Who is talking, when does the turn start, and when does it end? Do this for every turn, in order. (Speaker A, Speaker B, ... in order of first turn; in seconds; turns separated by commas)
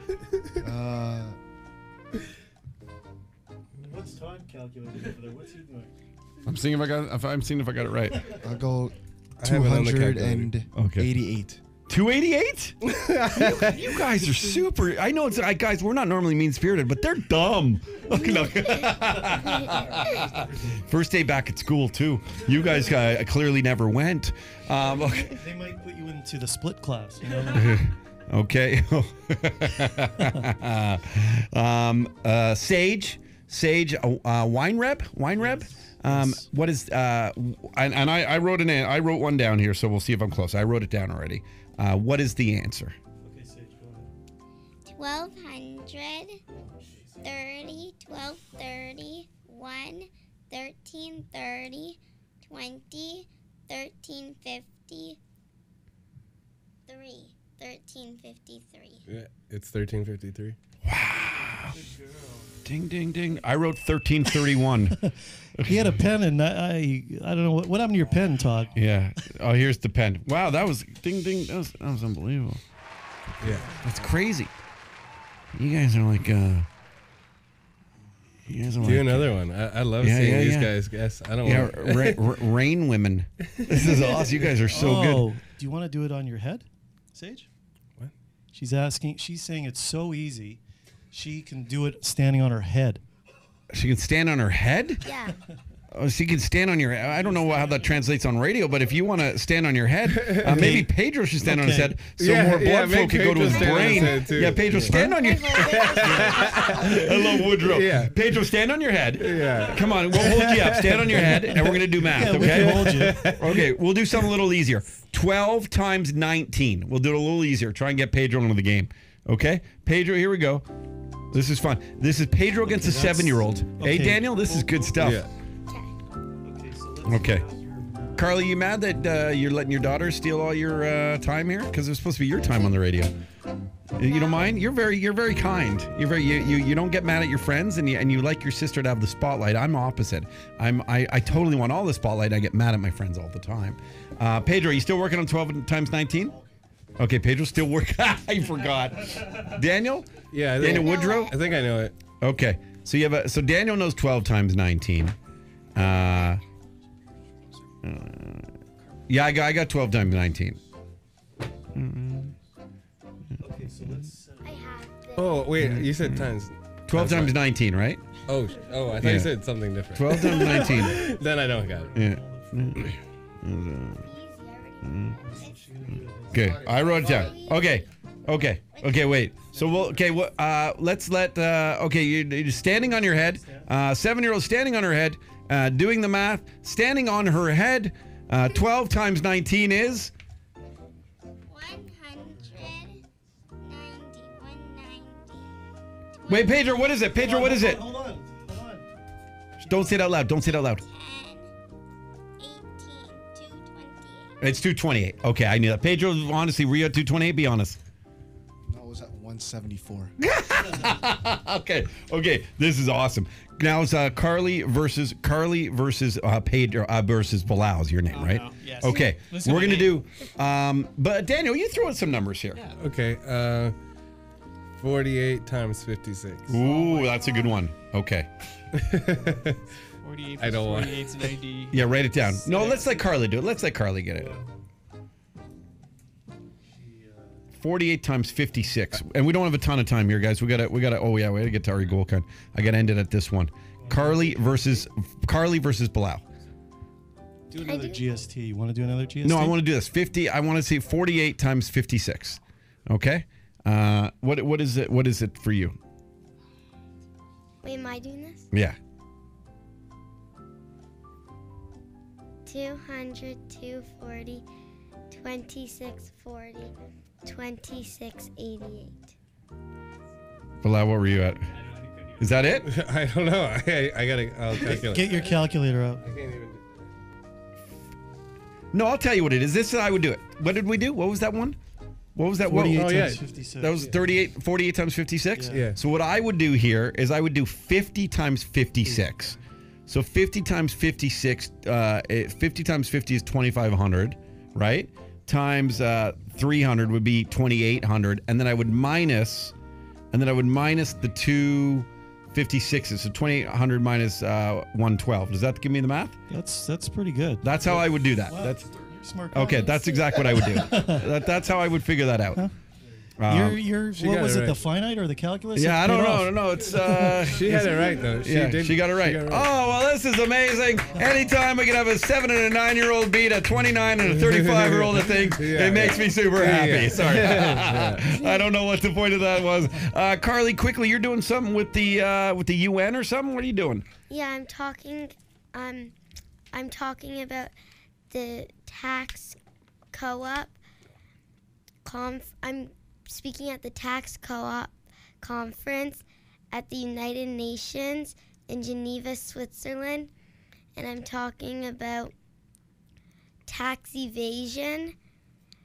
Speaker A: 0.6-1.4, Speaker B: 3.8-5.9, Speaker C: 6.4-8.2, Speaker A: 8.4-11.6, Speaker D: 9.4-10.5, Speaker C: 10.7-11.1, Speaker C: 11.9-25.4, Speaker D: 12.9-13.5, Speaker B: 18.7-20.8, Speaker B: 24.8-27.8, Speaker C: 27.6-43.0, Speaker B: 35.3-36.5, Speaker B: 43.2-44.1, Speaker E: 44.9-46.4, Speaker B: 46.6-47.2, Speaker E: 47.2-55.2, Speaker E: 56.9-59.0, Speaker D: 59.1-60.6, Speaker C: 60.8-61.8, Speaker B: 61.6-62.5, Speaker C: 62.6-65.0, Speaker C: 65.5-65.8, Speaker B: 65.6-68.8, Speaker C: 68.7-72.6, Speaker D: 73.4-73.8, Speaker C: 73.7-74.5, Speaker C: 75.5-76.7, Speaker C: 78.5-79.3, Speaker D: 78.8-82.2, Speaker C: 80.0-80.7, Speaker C: 81.4-85.2, Speaker D: 83.6-84.5, Speaker B: 84.7-87.5, Speaker B: 88.5-90.6, Speaker B: 91.1-93.0, Speaker C: 93.7-95.0, Speaker E: 95.0-95.3, Speaker C: 95.9-120.7, Speaker B: 97.1-97.8, Speaker D: 100.2-100.5, Speaker B: 100.4-100.9, Speaker B: 101.4-102.0, Speaker D: 102.1-108.3, Speaker E: 103.7-104.0, Speaker B: 104.7-105.1, Speaker E: 105.2-106.6, Speaker B: 106.0-106.5, Speaker D: 109.2-111.8, Speaker B: 112.0-113.3, Speaker D: 112.3-113.6, Speaker C: 121.3-125.2, Speaker B: 122.8-125.0, Speaker D: 125.0-125.3, Speaker B: 126.4-128.3, Speaker C: 127.0-127.4, Speaker C: 128.2-133.1, Speaker C: 133.9-146.4, Speaker E: 134.1-134.4, Speaker C: 147.0-151.3, Speaker D: 150.3-151.9, Speaker E: 150.8-151.3, Speaker C: 152.2-155.1, Speaker C: 155.7-156.4, Speaker C: 157.8-158.5, Speaker C: 159.1-160.6, Speaker C: 161.7-162.3, Speaker B: 163.4-164.8, Speaker E: 164.9-165.4, Speaker D: 165.1-167.3, Speaker C: 165.6-166.2, Speaker C: 166.9-168.1, Speaker D: 168.3-172.0, Speaker C: 169.0-169.3, Speaker C: 169.9-171.0, Speaker B: 170.6-173.0, Speaker C: 171.9-174.1, Speaker E: 174.0-175.4, Speaker C: 174.8-175.2, Speaker B: 175.2-177.3, Speaker C: 176.3-190.1, Speaker E: 176.8-177.8, Speaker B: 179.5-179.9, Speaker B: 182.7-183.7, Speaker E: 191.5-193.0, Speaker B: 192.2-192.6, Speaker E: 193.6-195.6, Speaker E: 196.2-196.6, Speaker C: 196.3-197.8, Speaker B: 197.2-198.9, Speaker C: 199.6-200.8, Speaker E: 200.6-201.5, Speaker E: 202.4-204.3, Speaker C: 204.4-207.8, Speaker A: 208.7-210.1, Speaker C: 210.2-222.6, Speaker F: 218.1-219.9, Speaker D: 222.7-223.8, Speaker D: 224.8-226.5, Speaker C: 226.5-228.3, Speaker B: 226.5-227.3, Speaker D: 228.7-229.6, Speaker B: 229.2-229.5, Speaker F: 230.0-232.3, Speaker D: 230.4-231.3, Speaker C: 231.7-234.4, Speaker B: 232.5-233.1, Speaker B: 234.1-234.6, Speaker B: 236.6-237.4, Speaker C: 237.6-246.2, Speaker B: 243.8-244.6, Speaker B: 247.5-249.6, Speaker E: 247.7-248.0, Speaker C: 249.2-255.8, Speaker E: 257.6-258.5, Speaker C: 258.5-258.8, Speaker E: 262.4-264.4, Speaker E: 265.1-269.0, Speaker C: 270.6-271.4, Speaker C: 272.2-272.7, Speaker D: 272.6-275.4, Speaker B: 274.5-276.0, Speaker D: 276.0-276.6, Speaker C: 278.7-281.6, Speaker C: 282.1-283.1, Speaker B: 282.4-283.9, Speaker D: 282.6-283.2, Speaker C: 283.6-299.5, Speaker B: 285.3-285.7, Speaker D: 285.5-285.8, Speaker C: 300.1-306.1, Speaker B: 306.3-307.5, Speaker C: 307.4-308.7, Speaker B: 308.2-311.1, Speaker C: 309.3-312.4, Speaker C: 313.2-313.6, Speaker B: 313.2-317.6, Speaker D: 313.9-314.6, Speaker C: 315.5-333.8, Speaker D: 317.2-319.5, Speaker B: 320.9-321.3, Speaker D: 324.0-328.0, Speaker E: 334.1-335.9, Speaker E: 336.5-337.5, Speaker E: 338.1-339.4, Speaker E: 339.9-340.6, Speaker E: 341.8-350.1, Speaker E: 350.8-352.1, Speaker E: 353.5-354.9